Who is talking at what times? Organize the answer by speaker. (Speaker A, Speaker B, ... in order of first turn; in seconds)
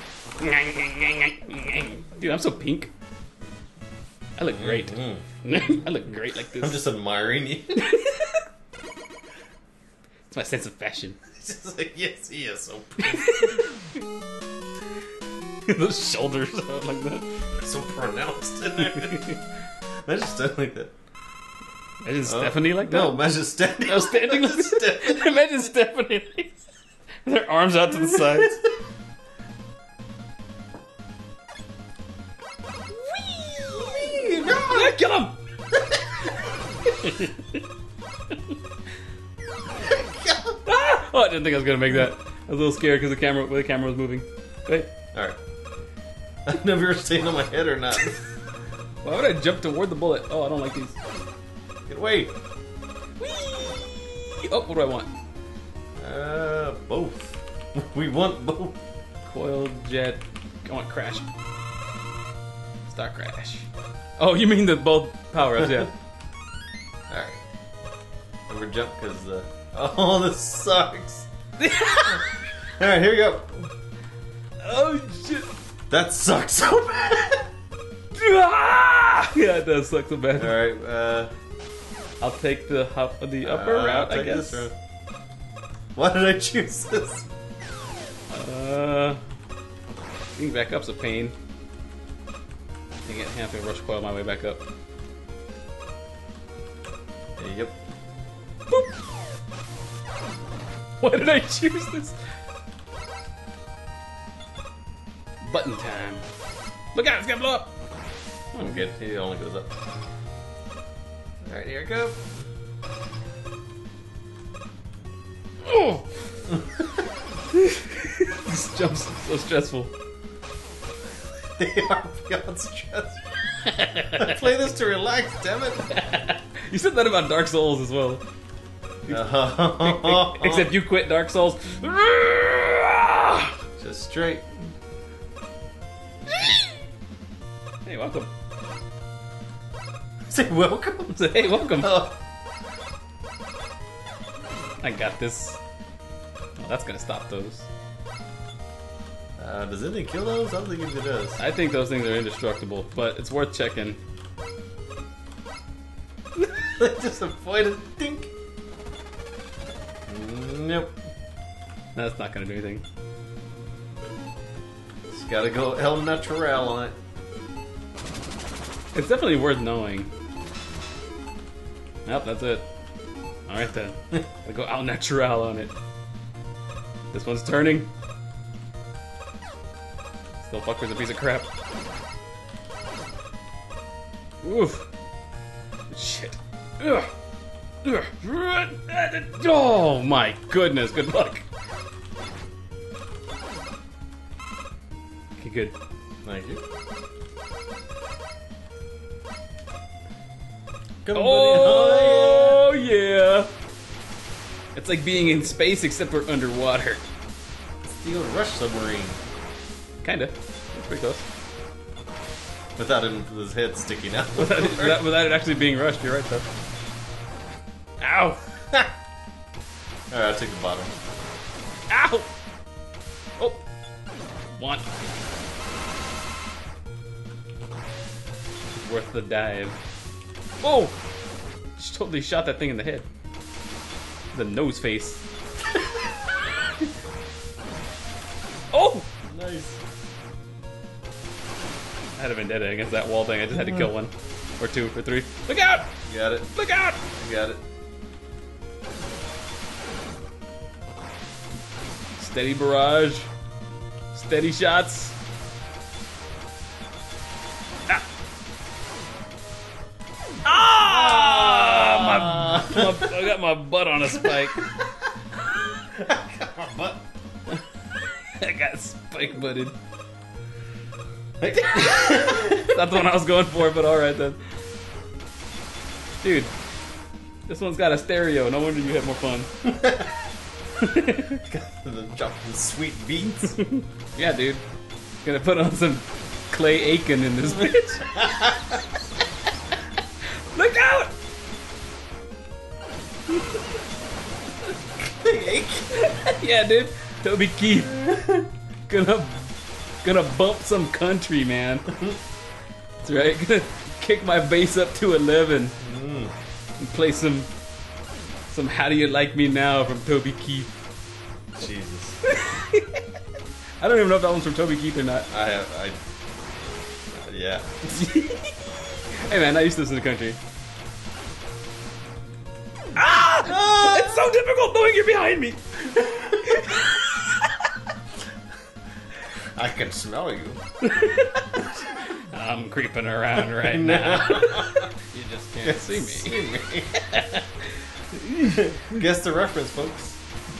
Speaker A: 0.4-2.9, 4.4-6.8, 7.8-8.4, 10.3-11.2, 13.0-13.7, 15.7-17.3, 18.8-19.4, 22.0-26.6, 27.2-28.6, 33.0-35.4, 37.0-37.6, 40.7-44.9, 49.0-50.9, 53.2-55.1, 59.2-61.2, 62.9-63.7, 64.2-65.9, 71.6-72.2, 74.6-75.5, 78.1-80.6, 82.2-84.7, 88.3-89.2, 90.3-91.3, 93.0-94.6, 101.0-102.2, 105.4-106.2, 106.9-107.7, 108.5-108.8, 115.6-116.2, 117.5-119.9, 123.7-124.4, 125.9-128.2, 129.1-133.5, 136.3-136.7, 137.8-138.3, 141.1-142.0, 144.8-145.6, 146.6-147.7, 151.4-154.0, 161.9-162.8, 168.9-170.1, 172.1-172.7, 173.5-175.7, 177.1-177.9, 180.4-181.5, 184.4-184.8, 185.9-187.1, 187.8-191.4, 195.4-195.8, 201.1-203.5, 204.8-207.0, 210.0-211.2, 214.3-216.5, 218.0-218.4, 221.9-222.3, 224.5-224.9, 228.8-229.8, 230.6-230.9, 231.8-233.1, 234.3-235.2, 238.7-239.1, 242.2-245.9, 246.5-247.0, 252.2-253.3, 254.1-255.1, 260.4-264.7, 268.4-269.8, 271.7-274.4, 276.2-276.5, 277.5-279.5, 280.8-281.4, 283.6-284.6, 285.2-288.3, 290.5-291.1, 295.9-301.9, 303.0-305.8, 306.8-307.5, 308.5-310.7, 312.3-313.0, 313.8-315.3, 317.9-320.4, 323.0-325.6, 326.4-327.4, 330.9-331.7, 332.3-336.4, 337.2-337.4, 338.1-339.0
Speaker B: 4.5-5.2, 6.5-7.8, 11.4-13.3, 17.6-19.3, 20.1-20.9, 22.2-25.3, 33.9-35.0, 39.8-40.6, 46.4-48.2, 51.9-52.3, 56.0-58.8, 67.1-67.4, 68.5-71.3, 72.8-73.7, 75.9-77.5, 80.3-81.3, 83.4-84.7, 85.9-87.3, 97.4-97.7, 108.5-109.7, 111.4-112.2, 121.5-123.2, 124.2-125.9, 129.1-130.7, 133.8-134.7, 140.3-142.2, 149.4-151.4, 156.8-158.3, 160.1-160.9, 165.1-166.9, 196.2-196.6, 201.0-202.6, 207.8-209.2, 212.8-215.0, 220.1-220.9, 239.2-239.8, 246.1-246.5, 247.1-247.6, 260.8-263.0, 264.3-264.7, 265.9-267.0, 271.4-272.8, 279.6-280.1, 281.3-283.6, 287.6-288.8, 295.1-295.9, 298.0-298.4, 305.8-306.3, 311.6-312.2, 315.3-316.0, 317.1-318.0, 323.4-324.3, 326.1-326.3, 329.6-330.6, 333.6-334.9, 335.6-337.3, 338.5-340.2